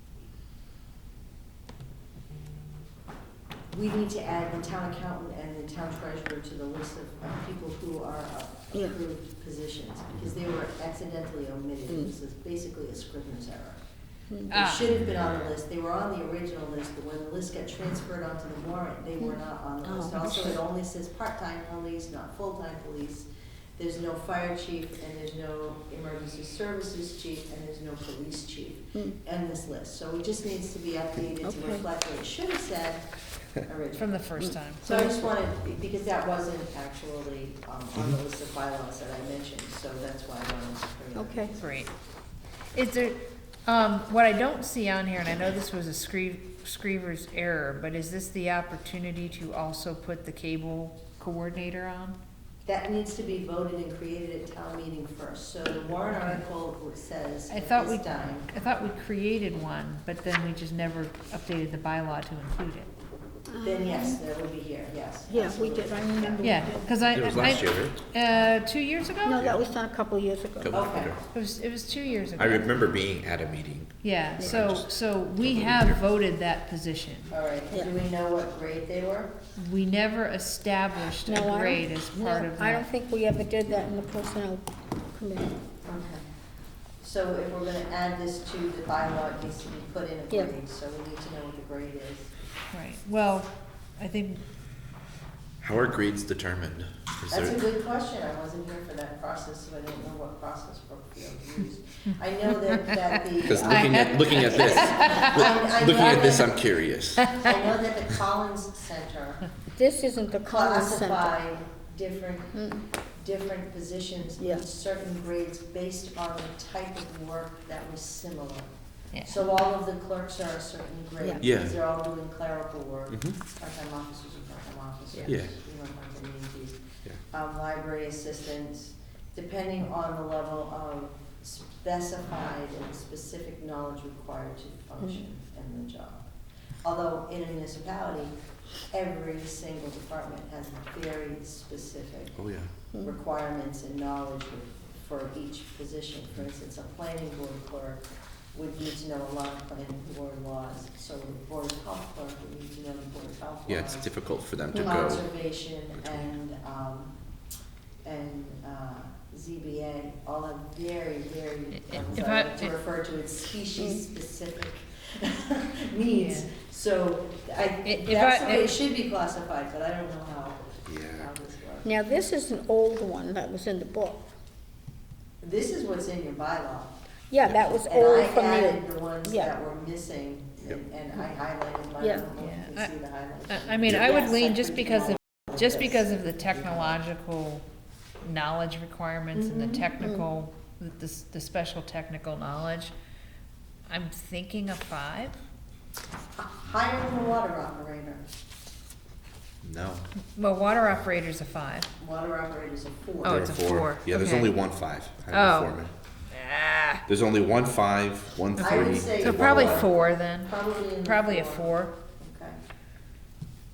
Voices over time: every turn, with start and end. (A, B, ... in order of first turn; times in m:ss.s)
0:03.7-0:13.8 A
0:14.3-0:14.6 B
0:14.5-0:14.8 C
0:14.5-0:33.0 A
0:19.8-0:20.6 B
0:31.4-0:31.8 B
0:33.6-0:34.2 A
0:34.0-0:34.8 C
0:34.4-0:35.2 B
0:34.8-0:41.6 A
0:41.2-0:41.6 B
0:41.6-0:41.9 C
0:42.7-0:52.2 C
0:52.6-0:58.5 A
0:57.5-1:02.9 C
1:03.5-1:04.2 B
1:03.6-1:06.7 A
1:05.3-1:06.8 B
1:06.4-1:09.5 C
1:07.1-1:08.0 D
1:09.2-1:10.8 B
1:09.4-1:09.6 D
1:10.6-1:11.2 D
1:10.7-1:11.2 A
1:11.3-1:12.7 C
1:12.4-1:16.0 D
1:14.0-1:17.3 C
1:17.3-1:19.3 A
1:19.6-1:22.9 C
1:21.3-1:25.5 B
1:25.8-1:26.2 A
1:27.0-1:32.3 A
1:32.7-1:34.4 C
1:35.6-1:37.6 D
1:37.3-1:46.8 A
1:42.0-1:42.9 C
1:43.4-1:47.4 D
1:43.7-1:45.5 C
1:47.3-1:49.4 A
1:49.8-1:51.3 B
1:50.4-1:58.7 A
1:52.5-1:52.8 B
1:54.4-1:54.6 B
1:59.2-2:16.2 A
2:01.4-2:01.8 D
2:03.1-2:03.4 D
2:05.2-2:05.6 D
2:16.8-2:18.3 A
2:18.9-2:22.4 A
2:22.4-2:22.7 D
2:23.0-2:28.0 A
2:28.5-2:34.1 A
2:33.7-2:36.3 D
2:34.7-2:37.1 A
2:34.8-2:35.0 B
2:38.0-2:51.9 A
2:41.7-2:42.8 C
2:46.1-2:46.5 C
2:47.8-2:48.8 C
2:50.9-2:51.3 D
2:51.8-2:54.3 B
2:55.4-2:56.9 A
2:57.3-2:59.5 B
2:57.9-3:06.0 A
3:02.0-3:02.3 B
3:02.4-3:02.9 C
3:03.5-3:07.7 C
3:08.2-3:12.9 C
3:09.4-3:09.9 A
3:10.0-3:10.2 B
3:13.9-3:15.4 C
3:16.4-3:18.2 A
3:19.6-3:20.0 D
3:20.3-3:21.9 C
3:22.0-3:23.5 A
3:23.2-3:24.6 C
3:23.3-3:25.9 D
3:25.3-3:27.0 C
3:27.1-3:29.8 D
3:28.6-3:32.6 A
3:28.7-3:32.0 C